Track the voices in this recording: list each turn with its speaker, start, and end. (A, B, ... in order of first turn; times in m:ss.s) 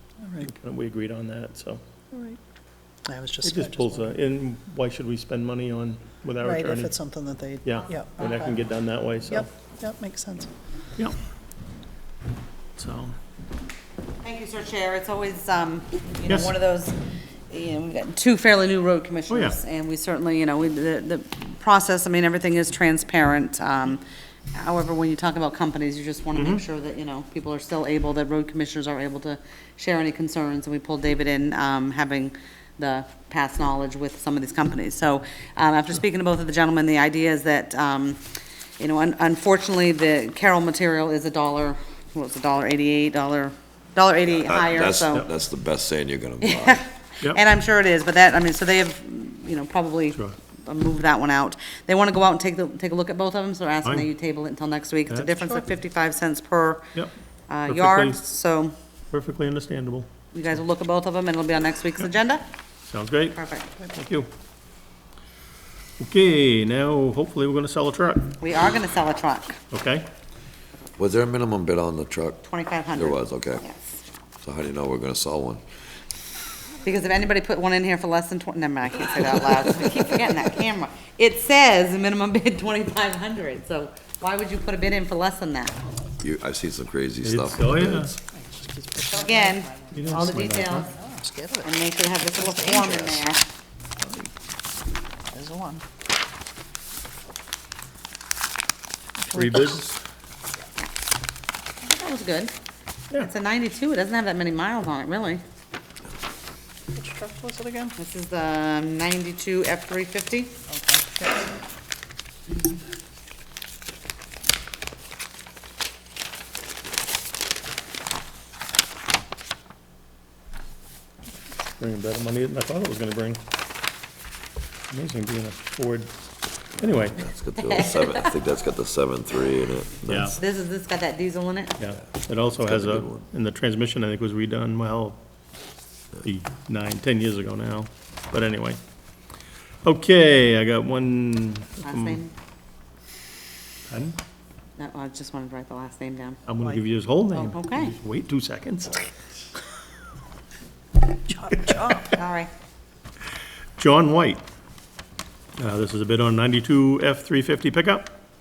0:00.4-0:01.8 A
0:02.1-0:02.4 B
0:03.0-0:04.1 B
0:03.4-0:07.0 A
0:06.4-0:08.5 B
0:07.6-0:09.5 A
0:09.3-0:10.5 B
0:12.8-0:13.1 A
0:14.2-0:17.0 C
0:16.3-0:16.5 A
0:17.5-0:24.0 C
0:19.3-0:19.6 A
0:24.5-0:38.2 C
0:26.3-0:26.6 A
0:38.8-0:45.3 C
0:44.3-0:46.8 D
0:46.4-0:56.9 C
0:55.1-0:55.6 A
0:57.5-0:58.7 C
0:57.7-0:58.2 A
0:59.1-1:00.1 A
1:00.3-1:02.4 C
1:02.9-1:04.3 A
1:03.4-1:03.7 C
1:06.0-1:08.4 A
1:08.4-1:09.6 C
1:09.7-1:10.1 A
1:11.0-1:13.6 D
1:12.5-1:14.0 C
1:14.4-1:15.6 D
1:16.8-1:25.8 C
1:26.2-1:28.2 D
1:27.2-1:28.1 A
1:28.4-1:31.7 B
1:29.1-1:30.9 C
1:29.9-1:30.9 A
1:31.6-1:33.4 C
1:32.4-1:33.2 B
1:34.0-1:34.3 A
1:35.3-1:35.8 B
1:39.2-1:39.8 B
1:39.3-1:40.0 A
1:41.8-1:42.5 C
1:43.2-1:45.4 C
1:46.9-1:47.9 B
1:48.0-1:50.5 C
1:50.7-1:51.4 B
2:01.8-2:03.4 A
2:04.9-2:06.1 A
2:06.8-2:07.2 A
2:07.0-2:10.4 D
2:07.6-2:08.3 C
2:10.0-2:10.4 A
2:10.3-2:11.8 C
2:11.8-2:15.2 A
2:12.5-2:13.2 D
2:16.2-2:18.8 A
2:19.8-2:22.2 A
2:21.8-2:22.3 C
2:23.9-2:24.2 A
2:24.8-2:26.4 C
2:26.5-2:29.0 A
2:27.3-2:27.9 C
2:31.3-2:32.1 B
2:32.0-2:32.5 C
2:33.8-2:34.4 A
2:35.6-2:38.2 A